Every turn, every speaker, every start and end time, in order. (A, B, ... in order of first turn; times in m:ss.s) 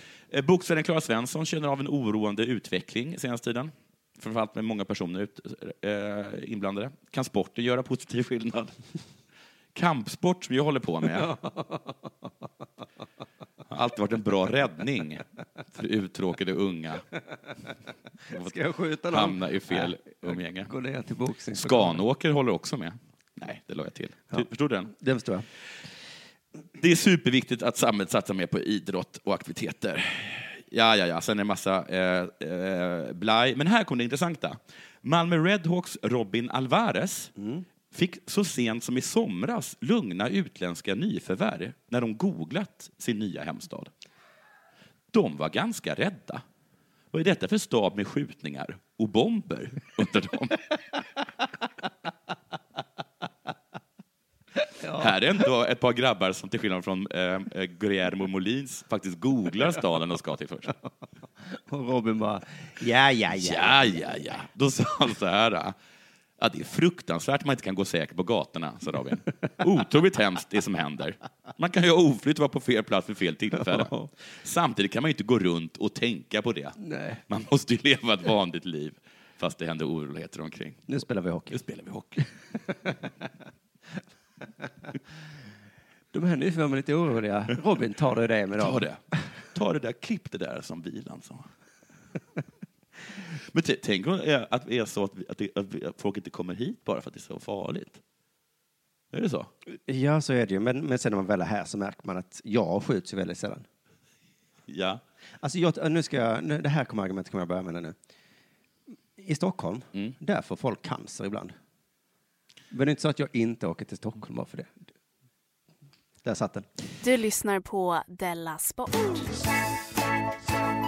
0:00.3-0:08.7 A
0:09.7-0:11.3 A
0:11.1-0:11.9 B
0:13.7-0:17.0 A
0:18.3-0:22.0 B
0:19.1-0:20.7 A
0:21.5-0:24.9 A
0:24.3-0:25.4 B
0:26.8-0:37.3 A
0:37.4-0:37.6 B
0:37.9-0:43.9 A
0:45.1-0:46.4 A
0:47.1-0:50.7 A
0:54.7-0:55.1 B
0:54.9-1:00.7 A
1:01.5-1:04.3 B
1:03.3-1:05.8 A
1:06.4-1:20.9 A
1:13.7-1:14.1 B
1:16.8-1:17.2 B
1:20.9-1:21.6 B
1:21.5-1:22.2 A
1:26.1-1:28.8 B
1:28.6-1:29.0 A
1:29.5-1:31.4 A
1:33.3-1:38.0 A
1:39.1-1:39.5 A
1:39.7-1:43.6 B
1:44.7-1:45.0 A
1:45.4-1:47.9 B
1:49.2-1:51.5 B
1:52.7-1:54.8 B
1:56.2-1:56.7 B
1:57.0-1:59.3 C